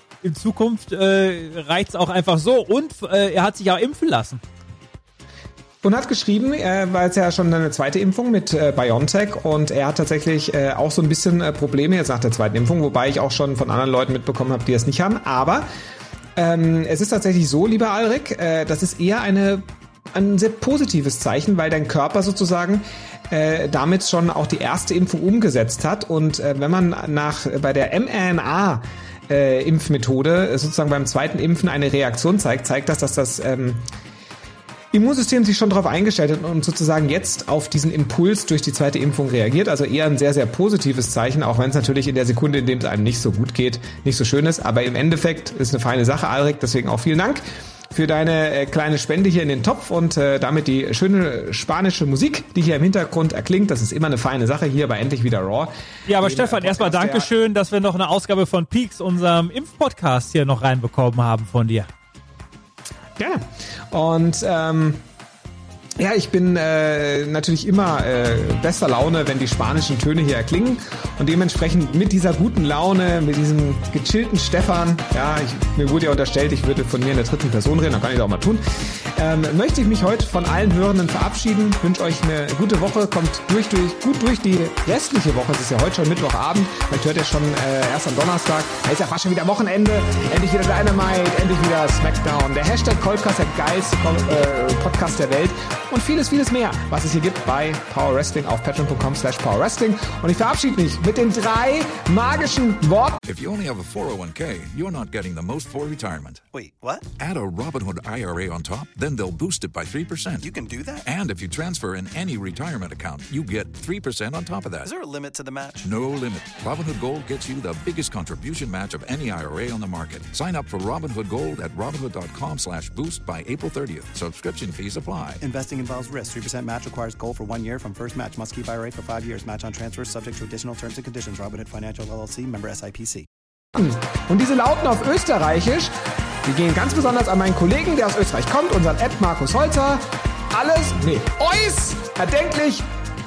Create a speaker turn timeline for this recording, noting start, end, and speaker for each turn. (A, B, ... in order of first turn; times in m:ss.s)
0:00.2-0:04.4 A
0:05.8-0:15.6 B
0:16.4-0:33.9 B
0:34.9-0:57.3 B
0:56.1-1:01.9 A
1:03.2-1:05.0 B
1:06.0-1:43.2 B
1:43.2-1:46.4 C
1:46.5-1:47.0 D
1:47.2-1:54.9 C
1:50.4-1:51.0 D
1:54.8-1:55.8 D
1:55.8-2:05.4 C
2:05.4-2:13.2 D
2:13.7-2:15.9 B
2:16.4-2:22.9 B